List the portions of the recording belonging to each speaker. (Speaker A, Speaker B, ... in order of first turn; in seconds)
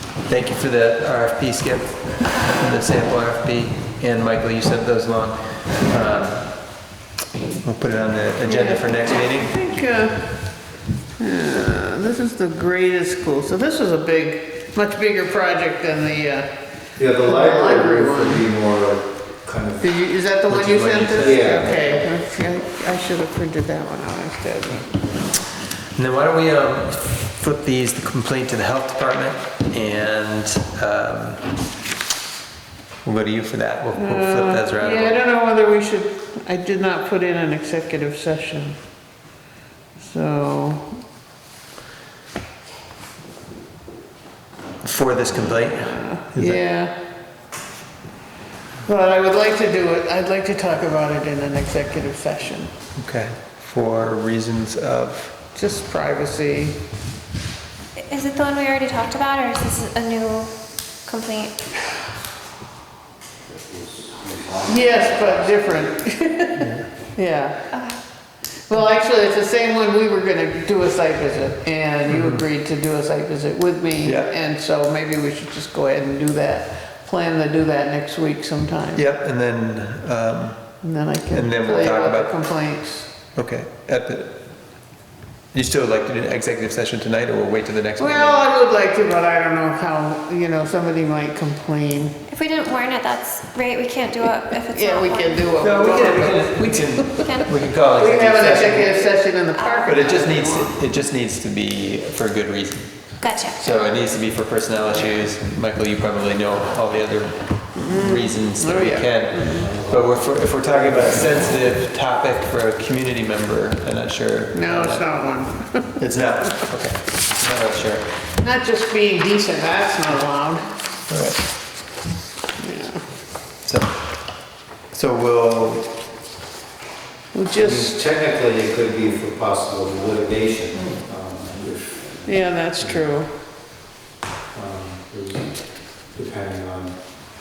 Speaker A: 0.2-6.7, 7.6-9.6, 20.5-21.8, 25.9-31.5, 33.0-35.2, 44.8-46.6, 53.0-55.4, 72.1-72.4, 74.0-74.3, 79.0-80.6, 81.3-82.4, 83.3-84.4, 85.5-88.4, 95.6-99.0, 99.8-115.1, 116.0-118.1, 121.1-121.4, 123.7-124.0, 124.9-125.9
Speaker B: 8.4-10.3, 11.2-16.5, 17.2-18.5, 19.8-25.0, 33.9-38.8, 40.0-40.9, 45.3-46.9, 48.9-52.7, 55.5-56.8, 64.7-67.6, 68.7-79.0, 80.8-83.1, 88.0-92.2, 94.7-97.3, 98.0-100.7, 107.8-109.7, 114.5-116.0, 118.4-120.6, 122.6-123.0, 127.3-128.0, 132.3-133.3
Speaker C: 17.0-19.9, 21.2-22.0, 63.6-65.6, 109.6-110.2, 110.9-111.3, 127.5-132.8, 134.5-137.0
Speaker D: 58.0-60.5, 61.1-61.5, 67.7-68.0, 92.3-95.5, 97.2-97.5, 99.5-100.3, 103.2-103.9